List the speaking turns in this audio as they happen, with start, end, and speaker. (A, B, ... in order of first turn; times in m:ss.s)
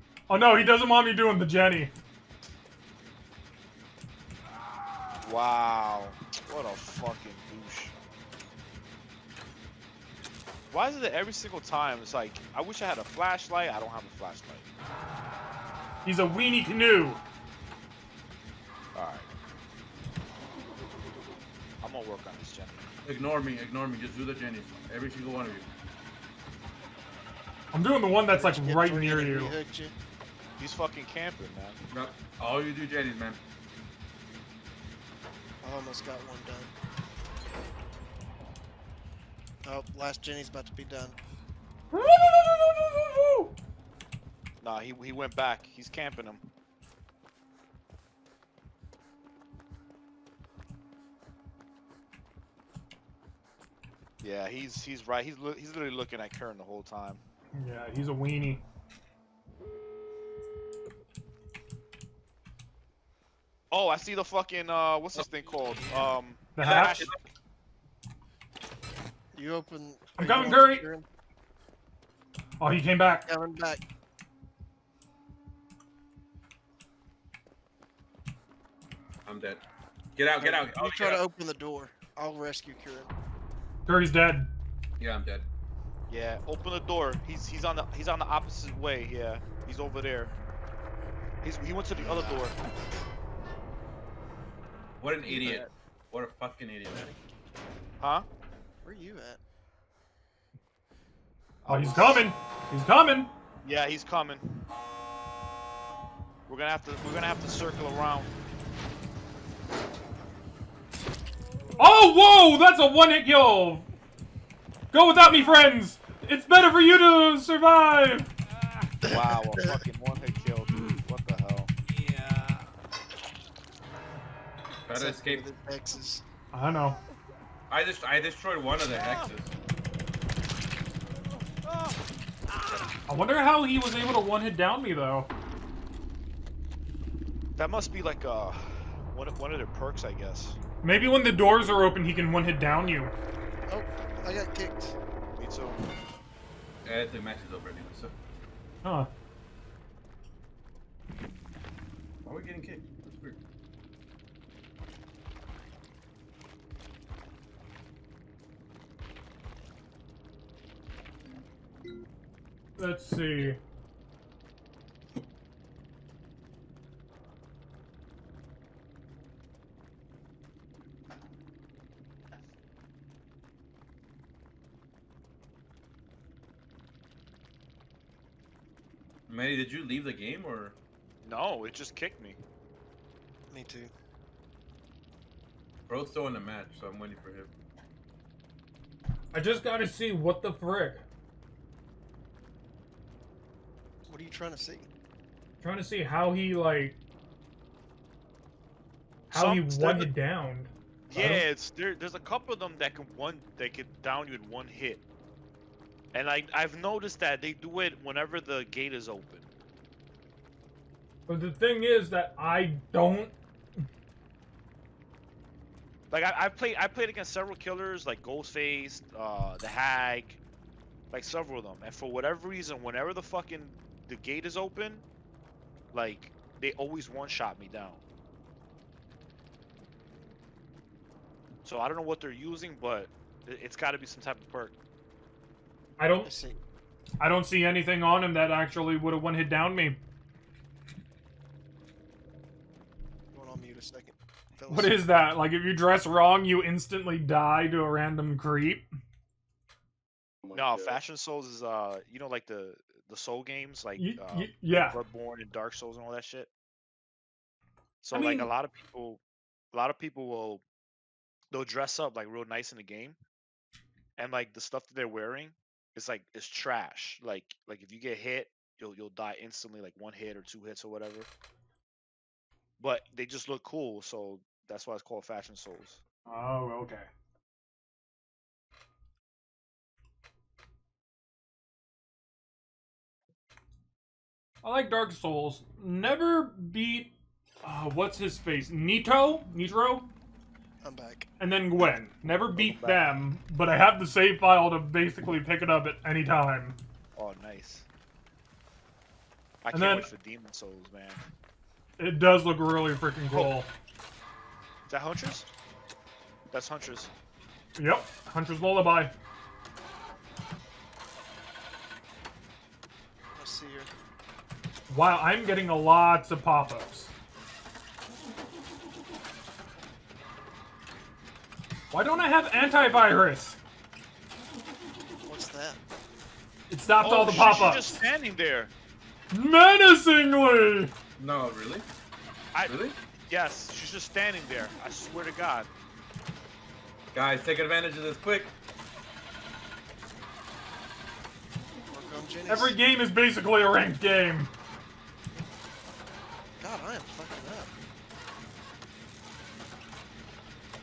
0:00.3-0:01.9 A
0:05.2-0:07.9 B
0:10.7-0:14.7 B
0:16.0-0:17.2 A
0:18.9-0:19.3 B
0:21.8-0:22.9 B
0:23.0-0:25.7 C
0:27.7-0:29.5 A
0:28.3-0:29.9 D
0:30.6-0:31.8 B
0:31.9-0:33.4 C
0:35.6-0:36.7 D
0:39.6-0:41.2 D
0:41.9-0:43.5 A
0:44.6-0:46.4 B
0:54.2-0:57.2 B
0:57.5-0:58.6 A
1:03.7-1:07.1 B
1:06.6-1:07.1 A
1:06.6-1:07.2 C
1:09.3-1:11.0 D
1:10.2-1:10.8 A
1:12.6-1:13.2 A
1:13.2-1:13.8 D
1:19.2-1:19.6 C
1:20.2-1:21.2 C
1:20.4-1:23.1 D
1:23.8-1:24.5 A
1:25.0-1:25.4 C
1:26.1-1:30.3 B
1:31.4-1:32.6 B
1:35.0-1:37.1 C
1:35.2-1:35.7 B
1:36.9-1:37.2 D
1:38.8-1:39.4 D
1:41.6-1:42.2 B
1:41.7-1:43.3 A
1:43.6-1:44.6 B
1:46.5-1:48.3 B
1:51.8-1:53.9 A
1:54.9-1:58.3 A
1:59.0-2:01.7 B
1:59.0-1:59.8 D
2:04.8-2:05.4 C
2:04.9-2:06.2 D
2:06.5-2:07.0 A
2:07.7-2:09.5 C
2:13.1-2:15.3 A
2:17.6-2:20.6 B
2:20.8-2:23.1 A
2:23.7-2:25.0 D
2:25.4-2:25.8 B
2:26.8-2:28.1 C
2:28.8-2:29.1 A
2:32.2-2:33.4 C
2:42.8-2:43.6 A
2:59.3-3:00.8 C
3:01.2-3:02.4 B
3:03.5-3:03.9 D
3:05.9-3:07.5 C
3:09.3-3:11.0 A
3:14.0-3:14.9 D
3:15.6-3:17.0 A
3:19.3-3:20.1 B
3:19.3-3:21.4 A
3:21.1-3:25.0 B
3:26.1-3:29.5 B
3:31.3-3:33.8 A
3:36.1-3:40.4 B
3:41.1-3:45.0 B
3:45.9-3:48.0 B
3:51.6-3:54.7 B
3:56.0-3:56.3 A
3:56.2-3:56.6 D
3:57.2-4:00.0 A
4:03.3-4:05.0 D
4:04.7-4:08.9 A
4:10.4-4:10.7 C
4:10.5-4:16.5 B
4:14.0-4:15.0 A
4:18.0-4:20.6 B
4:18.1-4:18.5 A
4:21.5-4:23.2 B
4:24.2-4:31.3 B
4:32.8-4:36.0 B
4:36.2-4:37.1 A
4:44.6-4:50.1 A
4:50.8-4:51.3 D
4:51.4-4:56.8 A
4:52.5-4:53.1 B
4:57.2-4:57.8 B
4:59.6-5:01.2 B
4:59.7-5:00.1 A
5:02.0-5:03.7 A
5:03.3-5:03.6 B
5:04.9-5:05.5 B
5:06.5-5:07.1 B
5:07.8-5:09.1 A
5:13.3-5:13.9 D
5:14.9-5:17.1 A
5:21.9-5:23.6 A
5:25.2-5:25.8 D
5:26.7-5:28.0 A
5:27.0-5:28.7 B
5:29.3-5:30.9 A
5:31.2-5:31.8 C
5:32.5-5:35.7 B
5:32.7-5:33.0 C
5:37.1-5:38.5 C
5:41.9-5:42.8 D
5:42.5-5:44.5 A
5:46.6-5:47.7 D